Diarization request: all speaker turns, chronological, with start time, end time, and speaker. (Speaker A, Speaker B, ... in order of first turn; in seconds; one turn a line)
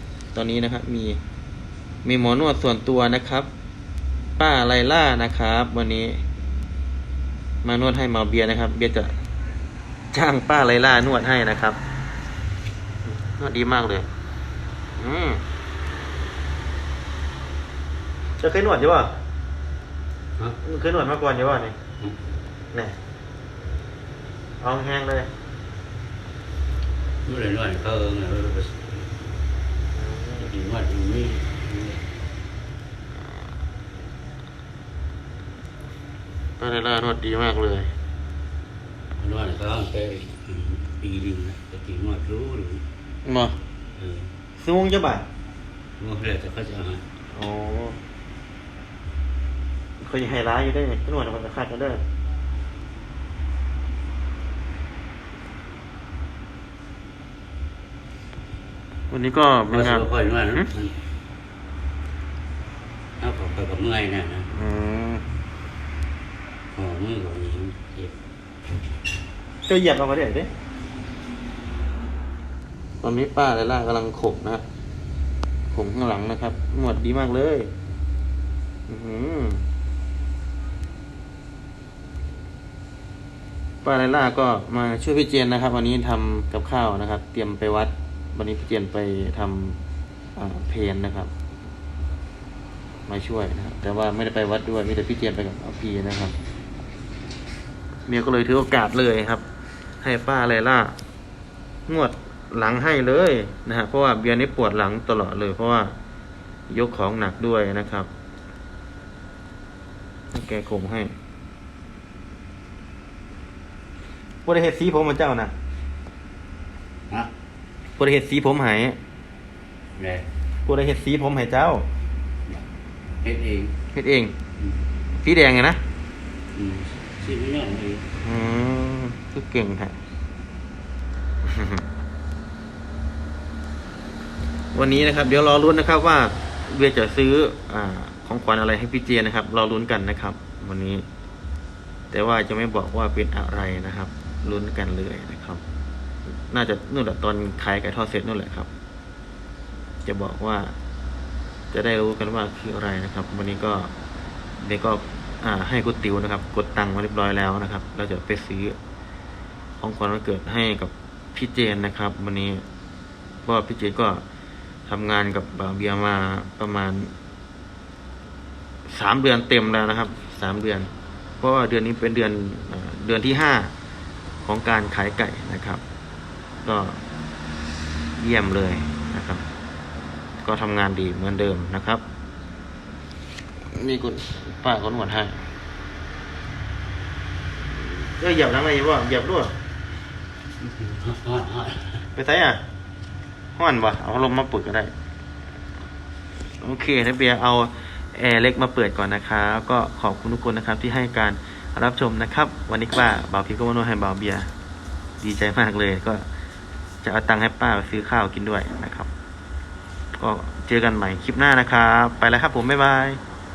Speaker A: 0.3-1.2
Speaker A: 2.0-3.5
Speaker A: 4.4-6.2
Speaker A: 7.6-9.1
Speaker A: 10.1-11.8
Speaker A: 13.1-14.1
Speaker A: 15.0-15.4
Speaker A: 18.4-19.1
Speaker A: 20.6-21.8
Speaker A: 24.6-25.3
Speaker B: 27.2-29.1
Speaker A: 29.9-30.5
Speaker B: 30.4-32.0
Speaker A: 36.6-37.9
Speaker B: 39.2-42.8
Speaker A: 43.2-43.6
Speaker B: 44.0-44.3
Speaker A: 44.6-45.3
Speaker B: 46.0-47.0
Speaker A: 47.3-48.0
Speaker A: 50.0-52.0
Speaker A: 59.1-60.7
Speaker B: 59.7-61.0
Speaker B: 63.2-64.5
Speaker A: 64.5-65.3
Speaker B: 66.7-68.1
Speaker A: 69.7-70.5
Speaker A: 73.0-74.7
Speaker A: 75.7-77.7
Speaker A: 78.9-79.7
Speaker A: 83.8-89.8
Speaker A: 90.4-91.3
Speaker A: 93.1-96.4
Speaker A: 98.1-99.5
Speaker A: 100.0-101.0
Speaker A: 101.9-106.0
Speaker A: 106.7-108.1
Speaker A: 110.3-111.1
Speaker A: 114.5-115.5
Speaker A: 118.0-119.0
Speaker B: 120.0-120.3
Speaker A: 120.7-121.8
Speaker B: 123.2-123.8
Speaker A: 123.9-124.3
Speaker A: 125.2-125.8
Speaker B: 126.5-128.1
Speaker A: 128.2-130.0
Speaker A: 131.4-131.8
Speaker A: 134.7-141.0
Speaker A: 142.1-145.6
Speaker A: 146.3-148.7
Speaker A: 150.1-150.8
Speaker A: 151.7-153.9
Speaker A: 154.6-158.8
Speaker A: 159.8-162.6
Speaker A: 163.4-164.2
Speaker A: 164.9-167.1
Speaker A: 168.9-173.7
Speaker A: 174.4-175.8
Speaker A: 176.7-177.0
Speaker A: 178.2-179.4
Speaker A: 180.4-182.0
Speaker A: 183.6-185.5
Speaker A: 187.7-189.6
Speaker B: 190.6-192.1
Speaker A: 192.2-192.6
Speaker A: 193.6-194.9
Speaker A: 196.6-204.5
Speaker A: 205.2-206.2
Speaker A: 207.0-209.1
Speaker A: 210.2-213.2